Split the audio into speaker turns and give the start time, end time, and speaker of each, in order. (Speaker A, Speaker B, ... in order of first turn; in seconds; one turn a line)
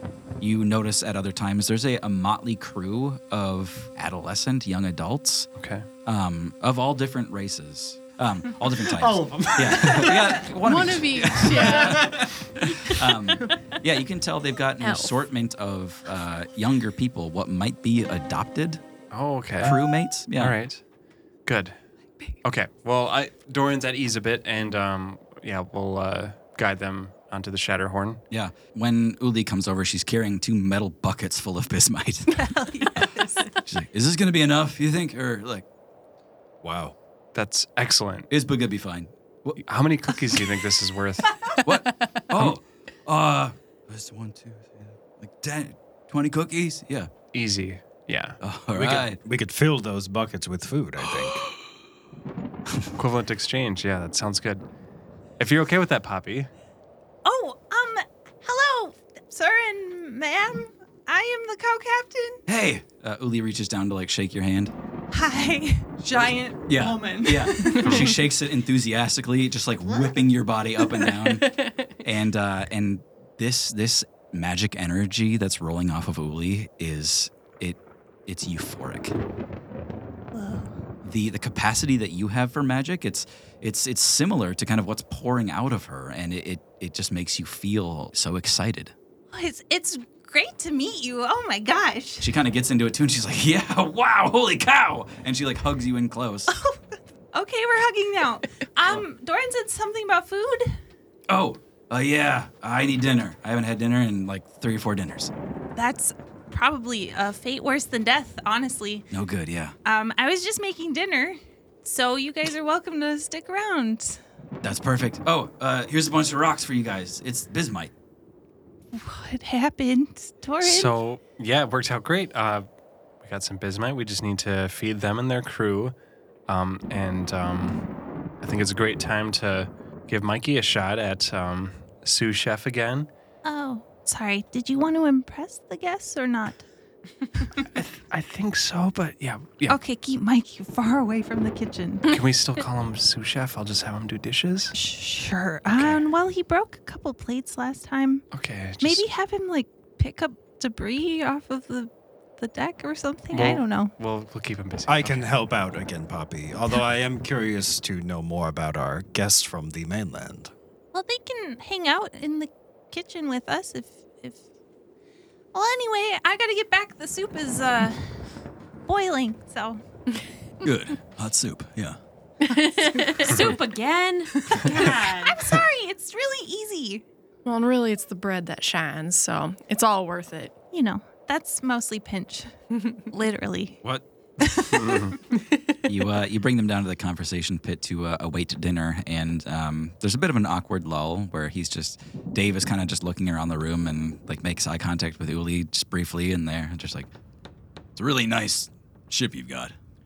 Speaker A: 0.4-5.5
Speaker B: 5.6-5.8
Speaker A: 6.0-18.8
Speaker C: 8.8-10.4
Speaker D: 10.6-12.2
Speaker C: 11.7-12.3
Speaker D: 14.8-15.1
Speaker B: 19.1-19.8
Speaker A: 19.6-20.6
Speaker B: 20.3-20.8
Speaker B: 21.4-21.8
Speaker B: 22.4-28.2
Speaker A: 28.3-35.6
Speaker E: 32.3-33.5
Speaker C: 36.6-37.0
Speaker B: 37.3-38.3
Speaker A: 38.3-39.6
Speaker B: 39.6-41.4
Speaker A: 41.6-47.1
Speaker B: 47.3-48.4
Speaker A: 48.4-49.2
Speaker C: 48.7-51.5
Speaker B: 52.9-54.6
Speaker B: 55.4-56.5
Speaker E: 57.2-62.4
Speaker A: 62.5-64.7
Speaker E: 65.1-68.1
Speaker A: 66.6-79.2
Speaker D: 71.4-71.8
Speaker E: 80.3-80.7
Speaker A: 81.0-88.9
Speaker E: 89.3-92.3
Speaker A: 92.2-96.5
Speaker E: 96.5-96.8
Speaker E: 97.3-100.8
Speaker A: 101.3-105.3
Speaker E: 105.7-109.1
Speaker A: 109.1-109.8
Speaker E: 109.8-114.2
Speaker A: 114.6-117.9
Speaker E: 118.9-120.9
Speaker B: 120.6-122.7
Speaker B: 123.2-125.9
Speaker B: 126.5-127.8
Speaker B: 128.4-133.1
Speaker E: 133.4-136.7
Speaker B: 137.6-139.8
Speaker E: 139.7-142.1
Speaker B: 142.1-144.7
Speaker E: 144.7-148.3
Speaker B: 145.7-146.0
Speaker B: 148.3-149.0
Speaker E: 148.8-153.9
Speaker B: 153.3-155.3
Speaker C: 154.9-160.5
Speaker E: 160.9-164.4
Speaker E: 165.5-168.2
Speaker E: 168.8-169.8
Speaker A: 170.6-172.0
Speaker D: 172.4-173.3
Speaker F: 173.1-175.4
Speaker E: 173.2-173.5
Speaker E: 174.6-177.0
Speaker D: 177.4-180.5
Speaker E: 180.7-182.5
Speaker E: 183.1-183.8
Speaker E: 184.5-185.0
Speaker B: 184.8-185.1
Speaker A: 185.8-197.1
Speaker A: 197.9-199.7